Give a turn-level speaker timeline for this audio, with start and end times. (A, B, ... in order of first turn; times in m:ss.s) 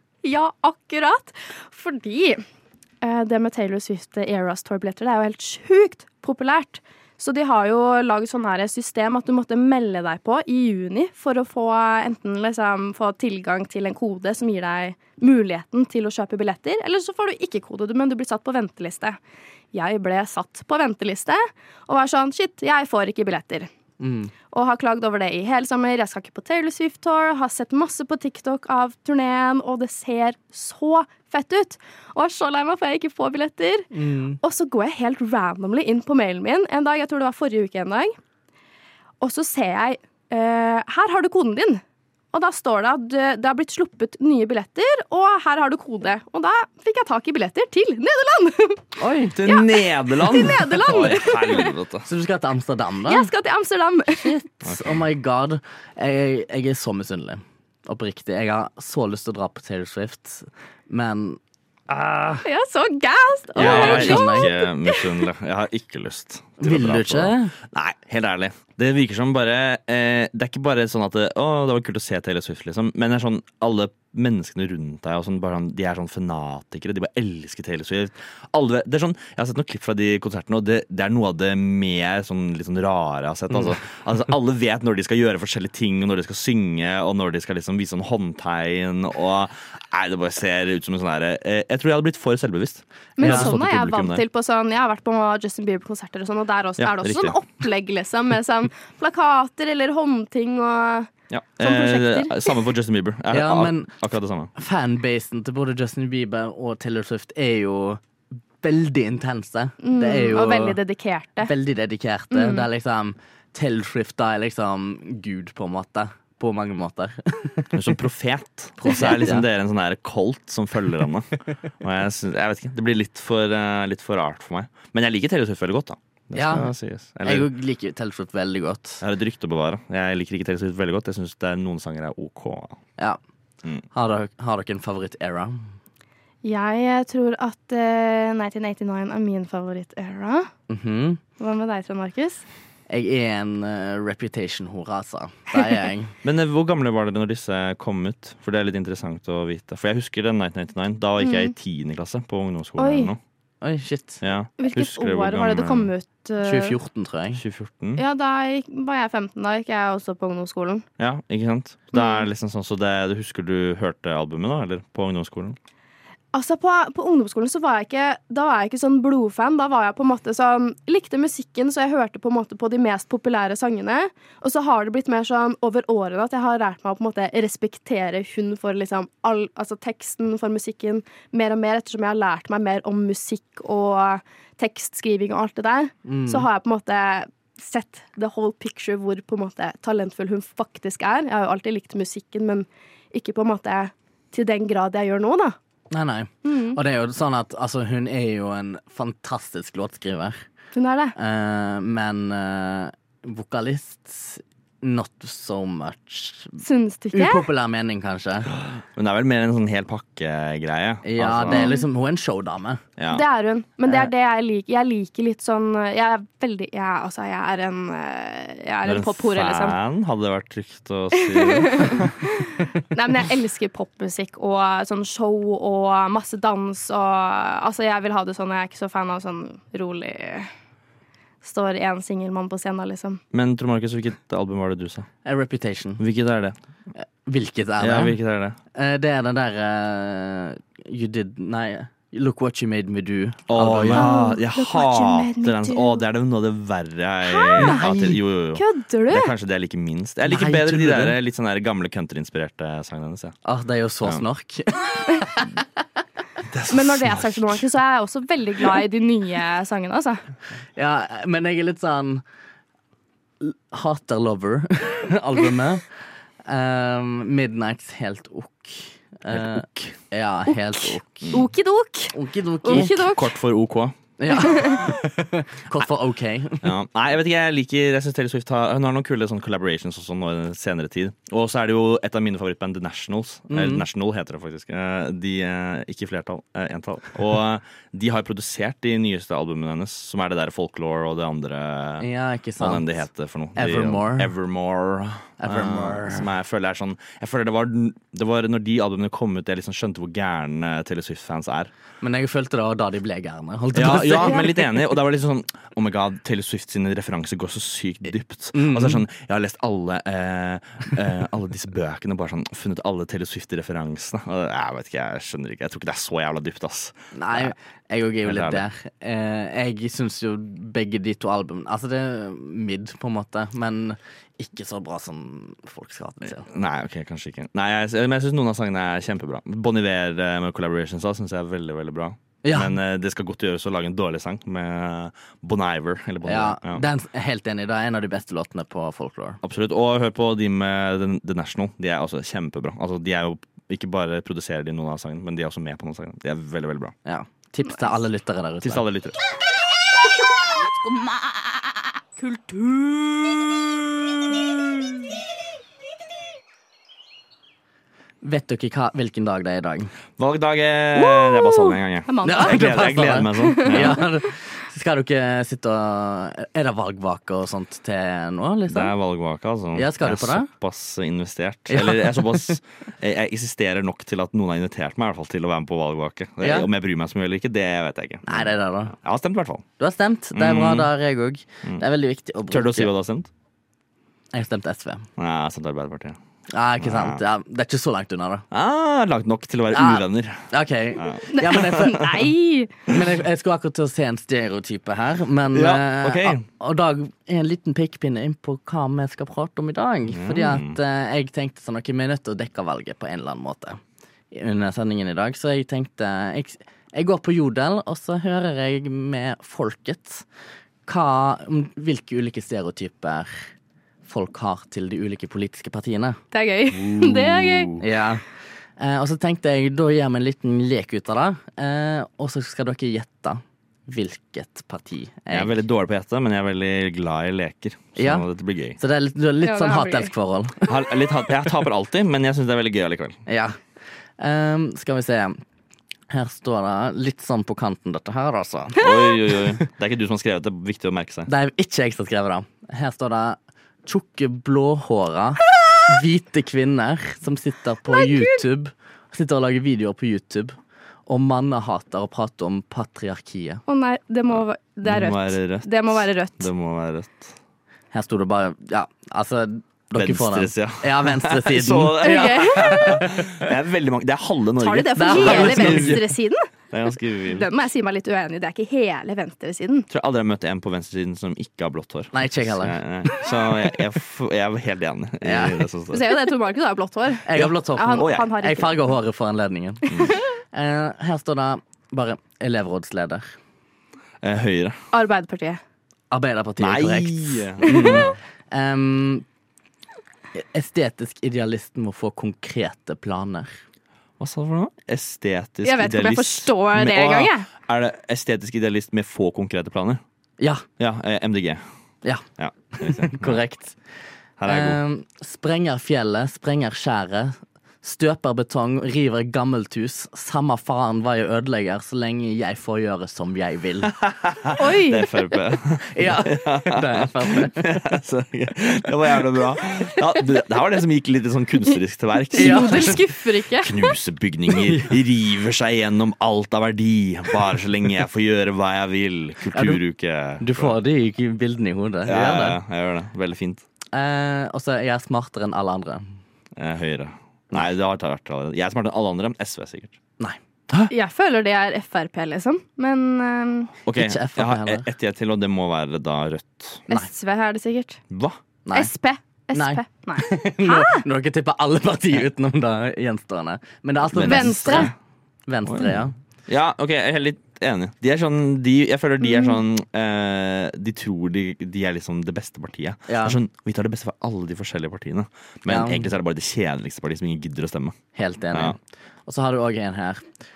0:00.2-0:02.4 A
0:03.0-0:19.2 A
0:19.7-0:23.7 A
0:24.0-0:24.3 B
0:24.5-0:33.9 A
0:33.9-0:34.4 B
0:34.4-0:38.1 A
0:39.2-0:41.8 A
0:42.3-0:48.8 A
0:49.0-0:49.4 B
0:49.3-0:52.0 C
0:49.4-0:51.7 A
0:52.0-0:53.3 B
0:53.0-0:54.3 A
0:54.1-1:01.4 B
0:54.6-0:55.0 C
1:01.9-1:02.4 B
1:02.4-1:05.1 A
1:03.5-1:04.5 B
1:03.6-1:34.2 C
1:06.6-1:07.5 B
1:33.2-1:41.1 A
1:33.2-1:33.5 B
1:36.8-1:37.4 C
1:41.3-1:44.5 C
1:41.6-1:42.5 A
1:43.3-1:43.9 B
1:44.5-1:48.0 B
1:48.6-1:50.8 B
1:49.8-1:51.5 A
1:51.4-1:57.8 B
1:52.3-1:52.7 A
1:57.7-2:01.3 C
1:58.8-1:59.4 B
2:01.8-2:07.5 C
2:06.3-2:06.7 B
2:07.2-2:09.0 B
2:09.0-2:12.8 C
2:13.9-2:15.6 B
2:16.4-2:20.5 A
2:20.7-2:21.2 B
2:21.4-2:22.4 A
2:22.9-2:26.1 B
2:26.2-2:33.2 C
2:31.2-2:31.5 A
2:32.8-2:33.1 A
2:33.6-2:34.2 B
2:34.2-2:35.9 C
2:34.6-2:36.8 A
2:36.4-2:37.4 B
2:37.3-2:38.0 C
2:38.0-2:40.8 A
2:41.0-2:45.6 C
2:41.9-2:42.2 A
2:46.3-3:15.6 A
3:06.0-3:06.5 B
3:15.9-3:20.4 B
3:16.4-3:16.8 A
3:20.7-3:21.1 A
3:21.2-3:26.6 B
3:26.6-3:27.4 A
3:27.1-3:28.5 B
3:28.6-3:31.7 C
3:31.0-3:32.8 B
3:31.5-3:31.8 A
3:33.0-3:33.2 C
3:33.1-3:39.8 A
3:38.8-3:42.2 C
3:41.2-3:50.5 A
3:51.4-3:53.2 A
3:53.3-3:55.1 C
3:55.2-3:56.0 B
3:56.0-3:56.6 C
3:57.0-3:58.2 B
3:57.8-3:58.6 C
3:58.7-4:04.2 B
4:03.5-4:13.4 C
4:03.9-4:06.0 A
4:07.3-4:09.3 A
4:07.6-4:08.2 B
4:10.2-4:11.2 B
4:13.4-4:15.5 B
4:16.5-4:17.6 C
4:16.7-4:20.2 A
4:20.8-4:22.2 B
4:23.4-4:25.8 B
4:26.4-4:31.4 B
4:29.3-4:29.9 C
4:30.8-4:33.3 A
4:32.1-4:33.0 B
4:32.7-4:34.0 C
4:34.2-4:36.7 B
4:34.3-4:34.9 A
4:36.6-4:52.1 C
4:43.5-4:43.8 B
4:52.0-4:53.0 B
4:52.6-5:01.7 C
4:53.6-4:54.3 B
4:55.4-4:56.3 B
5:02.0-5:04.5 B
5:03.7-5:17.5 C
5:08.5-5:09.0 B
5:17.1-5:26.5 B
5:18.2-5:18.6 C
5:26.4-5:36.8 C
5:32.4-5:32.8 B
5:36.2-5:39.4 B
5:39.4-5:46.9 C
5:47.0-5:48.8 B
5:48.6-5:49.2 C
5:52.2-5:52.9 A
5:58.2-5:59.9 B
6:00.2-6:04.0 C
6:01.0-6:02.7 A
6:02.2-6:08.9 B
6:03.3-6:04.0 A
6:08.7-6:19.6 C
6:09.7-6:10.5 B
6:11.7-6:12.6 B
6:16.4-6:16.7 B
6:18.3-6:18.9 B
6:19.8-6:22.9 B
6:20.3-6:20.9 C
6:22.5-6:23.3 C
6:24.3-6:25.1 B
6:25.2-6:26.2 C
6:26.5-6:28.4 B
6:26.8-6:27.2 C
6:28.5-6:32.3 C
6:29.7-6:32.1 B
6:31.3-6:32.7 A
6:32.9-6:43.8 B
6:35.5-6:36.4 C
6:40.1-6:40.8 C
6:44.3-6:50.2 B
6:50.8-6:53.3 B
6:54.0-6:56.2 B
6:56.3-6:57.8 A
6:56.7-6:57.8 C
6:57.8-6:58.2 B
6:58.8-7:05.6 B
7:05.3-7:08.8 C
7:08.0-7:10.7 B
7:09.4-7:10.1 A
7:10.6-7:13.2 C
7:13.3-7:13.6 B
7:14.2-7:15.4 B
7:16.1-7:18.8 B
7:18.8-7:21.3 C
7:21.3-7:30.6 B
7:27.9-7:28.4 A
7:31.1-7:33.6 B
7:33.7-7:36.5 A
7:34.3-7:37.4 C
7:37.9-7:43.4 B
7:39.9-7:46.1 C
7:42.0-7:43.0 A
7:44.6-7:46.5 A
7:45.0-7:46.0 B
7:46.7-7:47.5 C
7:47.2-7:49.9 A
7:49.9-7:56.2 C
7:52.1-7:52.8 B
7:55.2-7:55.6 B
7:55.9-7:58.9 A
7:57.2-7:59.9 B
7:57.9-7:58.3 C
8:00.5-8:03.3 B
8:04.2-8:04.8 C
8:04.9-8:05.6 A
8:06.1-8:09.2 B
8:06.6-8:08.2 C
8:07.7-8:08.1 A
8:10.3-8:13.5 B
8:14.2-8:20.0 C
8:15.6-8:17.5 A
8:20.8-8:21.6 C
8:22.0-8:23.8 B
8:22.4-8:23.4 C
8:24.4-8:24.8 C
8:24.4-8:33.9 B
8:33.9-8:50.8 C
8:34.6-8:35.2 A
8:35.9-8:37.7 B
8:42.3-8:43.9 A
8:42.3-8:43.0 B
8:49.5-8:49.8 B
8:50.4-8:52.6 B
8:52.0-8:53.6 C
8:53.9-8:56.1 B
8:56.6-9:00.0 C
9:00.9-9:03.7 A
9:03.8-9:06.8 C
9:03.9-9:04.9 B
9:06.9-9:08.0 A
9:08.1-9:08.4 C
9:08.6-9:08.9 B
9:08.7-9:11.0 A
9:09.5-9:14.9 B
9:14.1-9:14.9 C
9:14.2-9:14.9 A
9:15.5-9:16.1 B
9:15.6-9:28.0 C
9:19.2-9:19.6 A
9:23.1-9:23.4 B
9:25.7-9:26.1 B
9:28.1-9:30.2 B